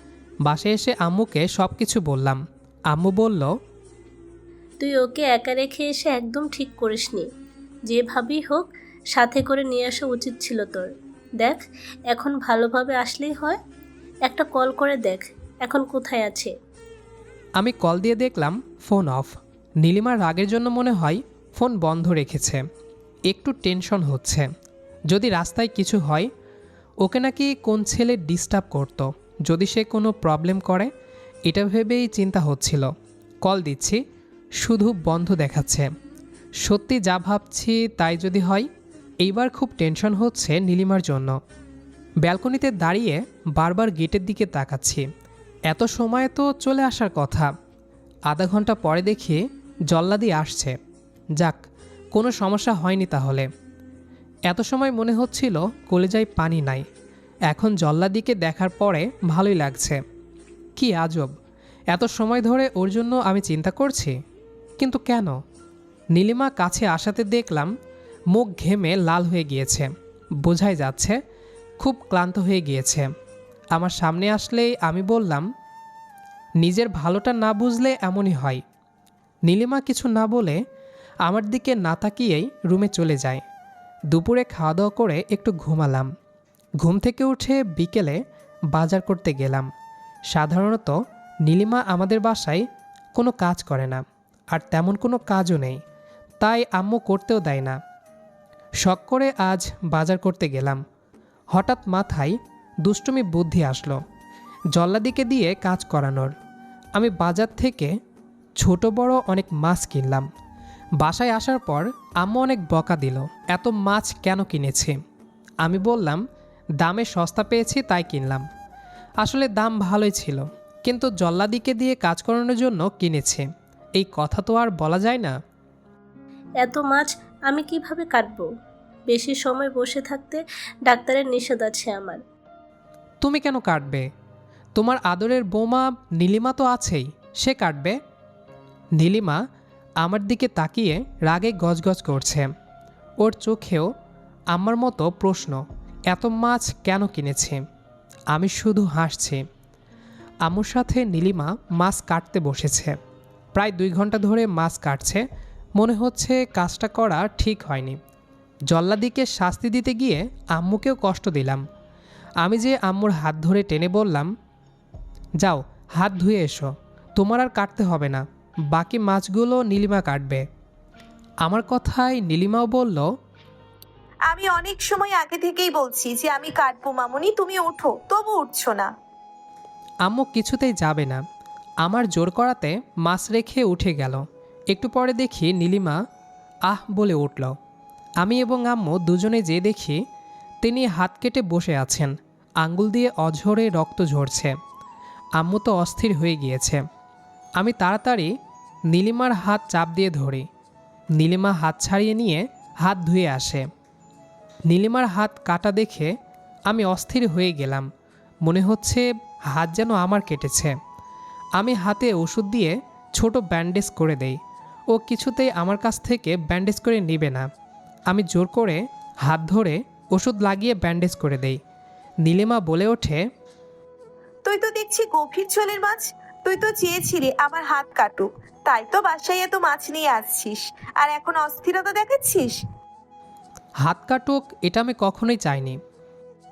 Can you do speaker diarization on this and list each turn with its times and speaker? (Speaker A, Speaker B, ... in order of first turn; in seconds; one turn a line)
Speaker A: 0.5-3.5
Speaker B: 4.8-7.3
Speaker B: 7.9-13.6
Speaker B: 14.2-16.5
Speaker A: 17.6-22.6
Speaker A: 23.3-24.5
Speaker A: 25.1-26.3
Speaker A: 27.0-30.9
Speaker A: 31.5-34.0
Speaker A: 34.6-35.9
Speaker A: 36.6-38.7
Speaker A: 39.2-41.4
Speaker A: 42.2-45.1
Speaker A: 45.7-47.5
Speaker A: 48.3-50.8
Speaker A: 51.4-53.5
Speaker A: 54.5-56.9
Speaker A: 57.5-60.0
Speaker A: 60.8-61.3
Speaker A: 61.9-64.2
Speaker A: 64.8-65.4
Speaker A: 66.1-67.7
Speaker A: 68.3-71.2
Speaker A: 71.8-73.1
Speaker A: 73.7-75.5
Speaker A: 76.6-78.6
Speaker A: 79.5-80.6
Speaker A: 81.2-83.4
Speaker A: 84.1-86.1
Speaker A: 86.8-89.7
Speaker A: 90.3-95.8
Speaker A: 96.4-97.8
Speaker A: 98.8-100.8
Speaker A: 101.5-104.0
Speaker A: 104.7-106.3
Speaker A: 107.0-108.0
Speaker A: 108.6-110.3
Speaker A: 111.0-115.0
Speaker A: 115.6-116.2
Speaker A: 116.8-118.5
Speaker A: 119.2-125.3
Speaker B: 126.6-128.5
Speaker B: 129.1-132.2
Speaker A: 133.2-134.1
Speaker A: 134.8-138.0
Speaker A: 139.0-139.4
Speaker A: 140.0-142.5
Speaker A: 143.2-143.9
Speaker A: 144.5-147.6
Speaker A: 148.3-149.4
Speaker A: 150.4-153.0
Speaker A: 153.6-155.2
Speaker A: 155.8-158.0
Speaker A: 158.7-161.7
Speaker A: 162.4-164.3
Speaker A: 165.4-170.5
Speaker A: 171.4-173.1
Speaker C: 174.3-178.9
Speaker A: 180.0-181.2
Speaker A: 181.8-186.0
Speaker A: 186.7-187.6
Speaker A: 188.2-190.0
Speaker A: 190.6-194.6
Speaker A: 195.4-196.8
Speaker A: 197.6-198.3
Speaker A: 198.9-200.5
Speaker A: 201.2-203.7
Speaker A: 204.7-206.1
Speaker A: 206.7-207.9
Speaker A: 208.4-210.8
Speaker A: 211.6-214.4
Speaker A: 214.9-217.5
Speaker A: 218.1-221.6
Speaker A: 222.2-223.2
Speaker C: 224.4-232.6
Speaker A: 233.8-235.8